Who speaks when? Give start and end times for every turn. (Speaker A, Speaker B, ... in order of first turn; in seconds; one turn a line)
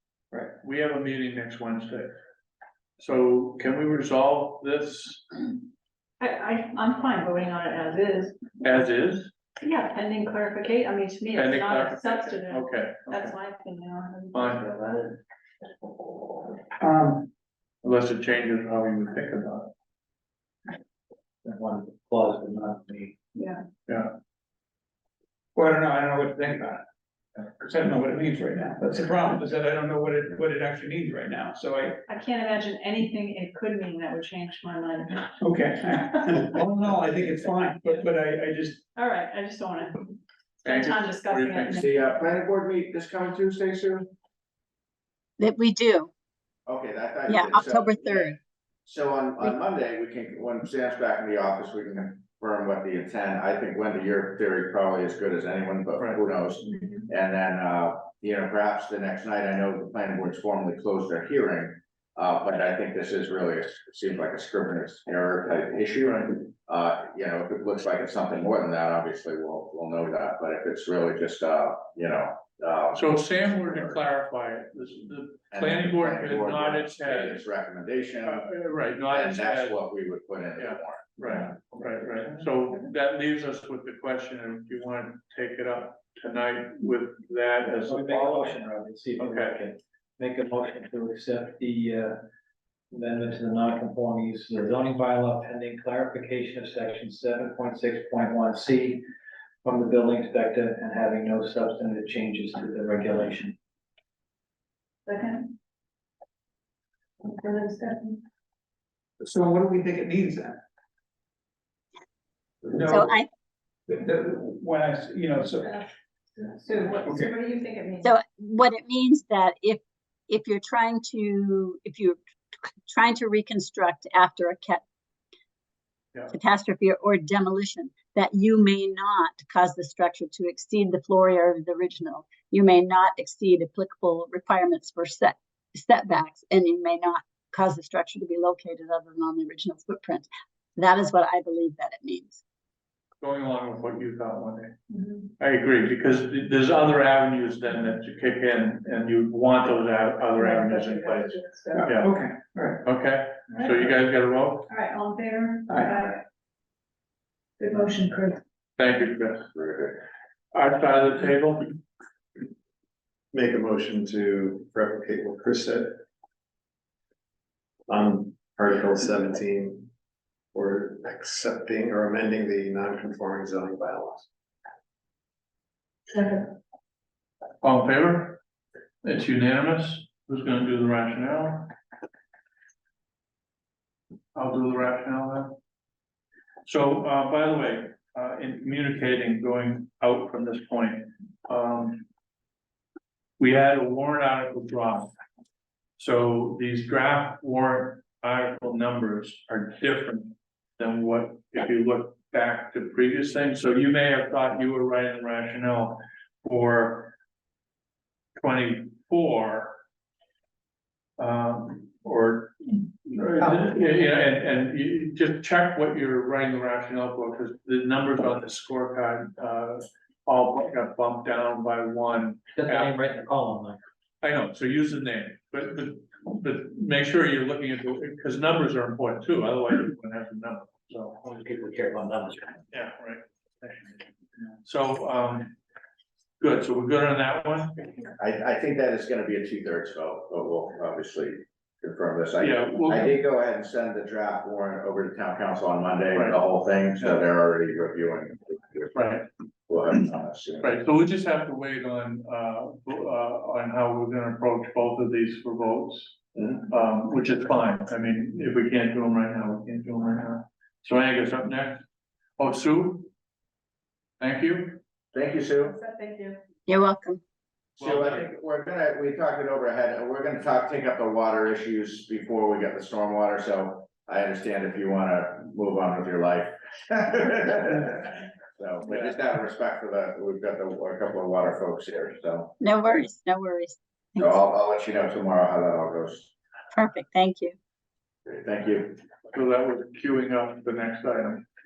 Speaker A: 0.6-2.1
Speaker A: 3.0-5.4
Speaker B: 6.2-8.5
Speaker A: 8.6-9.3
Speaker B: 9.6-15.1
Speaker A: 11.3-13.3
Speaker A: 14.3-14.7
Speaker C: 16.8-17.3
Speaker A: 17.8-19.7
Speaker D: 21.4-23.1
Speaker B: 23.4-23.7
Speaker C: 25.5-26.8
Speaker C: 27.4-32.0
Speaker B: 32.1-35.4
Speaker C: 35.4-38.8
Speaker B: 38.9-42.0
Speaker A: 40.6-41.8
Speaker E: 41.7-44.1
Speaker F: 45.4-46.1
Speaker E: 46.6-74.0
Speaker F: 47.3-48.4
Speaker A: 66.0-66.3
Speaker A: 72.9-77.5
Speaker E: 75.5-78.5
Speaker A: 78.2-79.8
Speaker E: 79.0-81.5
Speaker A: 80.5-88.6
Speaker D: 87.8-92.2
Speaker A: 89.2-89.5
Speaker D: 92.9-99.0
Speaker D: 99.6-103.5
Speaker B: 105.0-105.5
Speaker B: 107.2-108.2
Speaker C: 109.2-110.6
Speaker C: 112.7-113.1
Speaker F: 112.8-113.3
Speaker C: 113.9-115.8
Speaker B: 116.4-118.1
Speaker F: 118.0-122.2
Speaker F: 122.9-124.8
Speaker F: 126.3-142.4
Speaker A: 143.2-144.7
Speaker B: 144.9-145.3
Speaker A: 145.4-152.1
Speaker B: 150.4-151.8
Speaker C: 151.7-152.8
Speaker A: 152.8-154.7
Speaker B: 153.5-153.9
Speaker B: 154.7-156.2
Speaker B: 157.6-158.4
Speaker A: 158.8-159.4
Speaker E: 159.5-160.0
Speaker A: 160.5-161.7
Speaker G: 163.3-166.0
Speaker G: 167.9-169.9
Speaker G: 170.5-174.3
Speaker A: 177.6-178.4
Speaker A: 179.0-181.7
Speaker A: 184.3-185.5
Speaker A: 186.6-192.0
Speaker A: 193.4-195.1
Speaker A: 196.0-207.1
Speaker A: 208.4-209.8
Speaker A: 211.2-223.0
Speaker D: 222.6-223.8
Speaker A: 224.2-231.1
Speaker D: 231.2-232.6
Speaker A: 232.7-234.0
Speaker A: 234.6-235.5
Speaker A: 236.4-237.9
Speaker E: 238.2-249.1
Speaker A: 242.4-243.2
Speaker A: 246.1-246.4
Speaker A: 248.9-249.3
Speaker E: 249.7-250.7
Speaker A: 250.6-261.8
Speaker A: 262.4-263.1
Speaker A: 264.2-264.8
Speaker E: 265.1-265.7
Speaker B: 265.8-266.4
Speaker F: 266.7-267.2
Speaker A: 267.8-268.3
Speaker E: 267.8-282.6
Speaker F: 282.6-284.4
Speaker E: 284.2-286.3
Speaker F: 286.7-287.5
Speaker E: 288.2-289.0
Speaker A: 289.3-291.4